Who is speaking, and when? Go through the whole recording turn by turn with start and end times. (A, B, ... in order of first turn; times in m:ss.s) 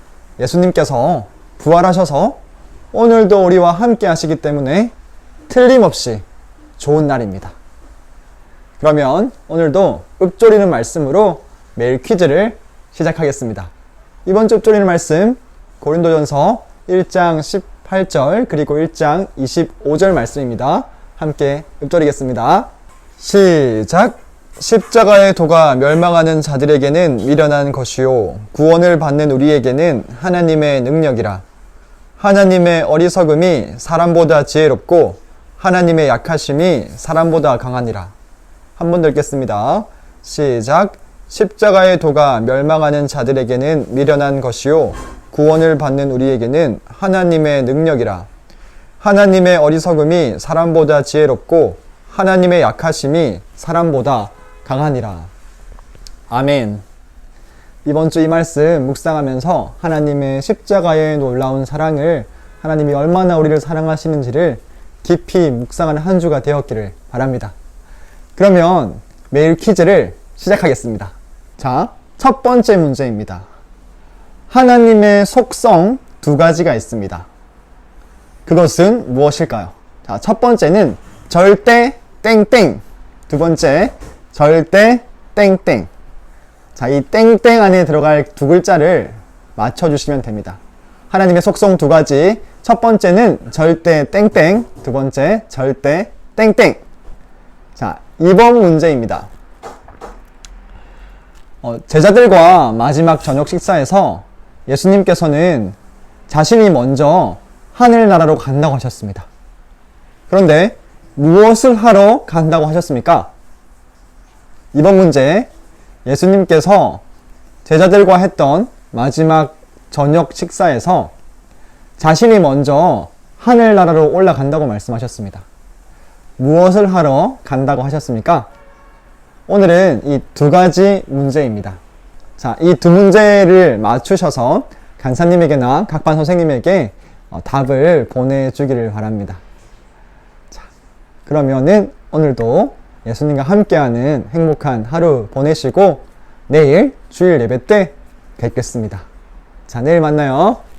0:00.4-0:02.4 A
0:02.9-0:04.9 A
0:05.5-0:06.2 A
0:06.8-0:07.5 A
0:08.8-0:13.7 A
0:14.2-0:22.7 A
0:23.2-0:31.4 A
0:32.2-0:38.1 A
0:38.8-0:48.3 A
0:49.0-0:55.3 A
0:56.3-0:56.8 A
0:57.8-1:07.5 A
1:08.4-1:13.4 A
1:14.5-1:17.3 A
1:18.4-1:25.9 A
1:26.7-1:30.6 A
1:31.1-1:36.8 A
1:37.8-1:39.3 A
1:41.6-1:45.8 A
1:46.3-1:49.3 A
1:50.3-1:53.3 A
1:54.7-1:55.5 A
1:56.0-1:57.0 A
1:57.6-2:01.1 A
2:02.0-2:05.4 A
2:06.4-2:08.5 A
2:09.5-2:11.8 A
2:12.4-2:19.4 A
2:21.2-2:29.0 A
2:29.7-2:30.6 A